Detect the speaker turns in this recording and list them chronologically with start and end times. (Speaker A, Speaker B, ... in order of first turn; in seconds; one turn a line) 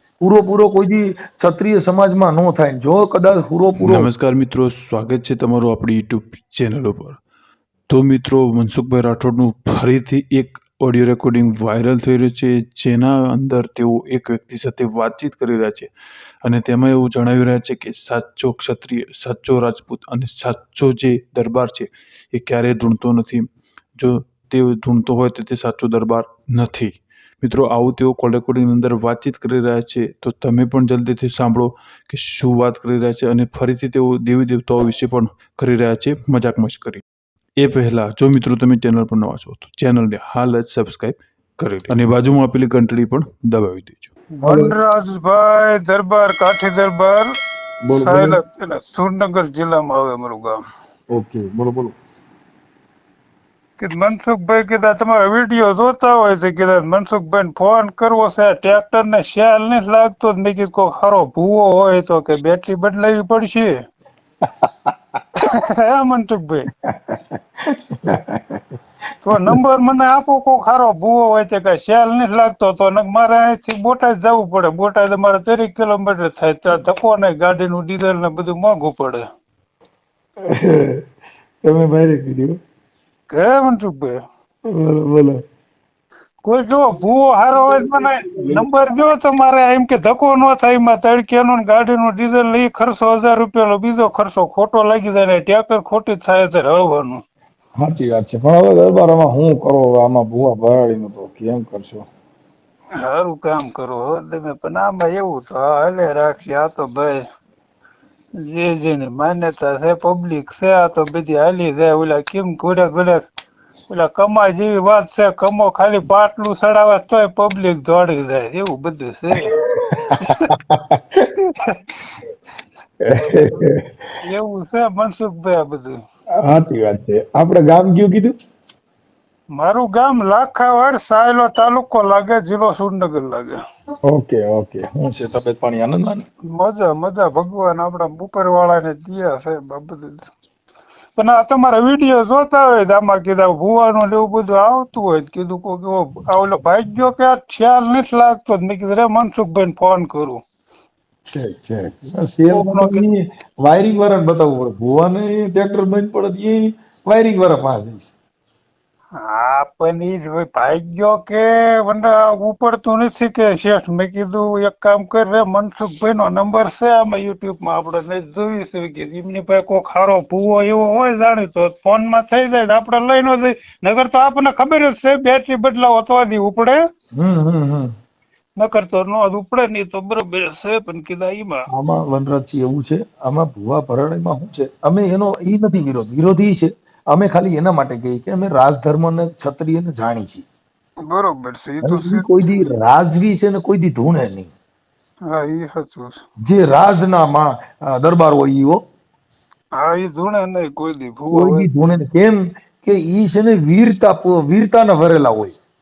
Speaker A: 0.2-4.1
Speaker B: 3.8-7.2
Speaker B: 7.9-15.9
Speaker B: 16.4-23.4
Speaker B: 23.9-37.0
Speaker B: 37.6-44.1
Speaker C: 44.4-47.3
Speaker A: 44.4-44.7
Speaker A: 47.8-48.4
Speaker C: 48.0-50.6
Speaker A: 51.1-51.9
Speaker C: 53.8-63.7
Speaker C: 65.4-66.7
Speaker A: 66.8-68.6
Speaker C: 69.2-79.2
Speaker A: 80.5-81.0
Speaker A: 81.6-82.6
Speaker C: 83.3-84.2
Speaker A: 84.7-85.4
Speaker C: 86.4-97.2
Speaker A: 87.7-88.6
Speaker A: 97.8-102.1
Speaker C: 103.0-107.2
Speaker C: 108.4-113.2
Speaker C: 113.9-119.5
Speaker A: 119.5-121.2
Speaker C: 120.2-120.5
Speaker A: 123.0-123.8
Speaker C: 124.2-126.0
Speaker A: 126.4-128.3
Speaker C: 129.6-133.6
Speaker A: 134.1-136.2
Speaker C: 136.6-140.2
Speaker C: 141.2-150.4
Speaker A: 151.3-158.1
Speaker C: 152.5-153.1
Speaker C: 159.2-176.8
Speaker A: 177.2-177.9
Speaker C: 178.6-181.6
Speaker A: 181.7-190.4
Speaker C: 191.1-192.3
Speaker A: 191.8-194.5
Speaker C: 195.3-196.2
Speaker A: 196.4-198.8
Speaker C: 199.8-201.7
Speaker A: 201.3-205.5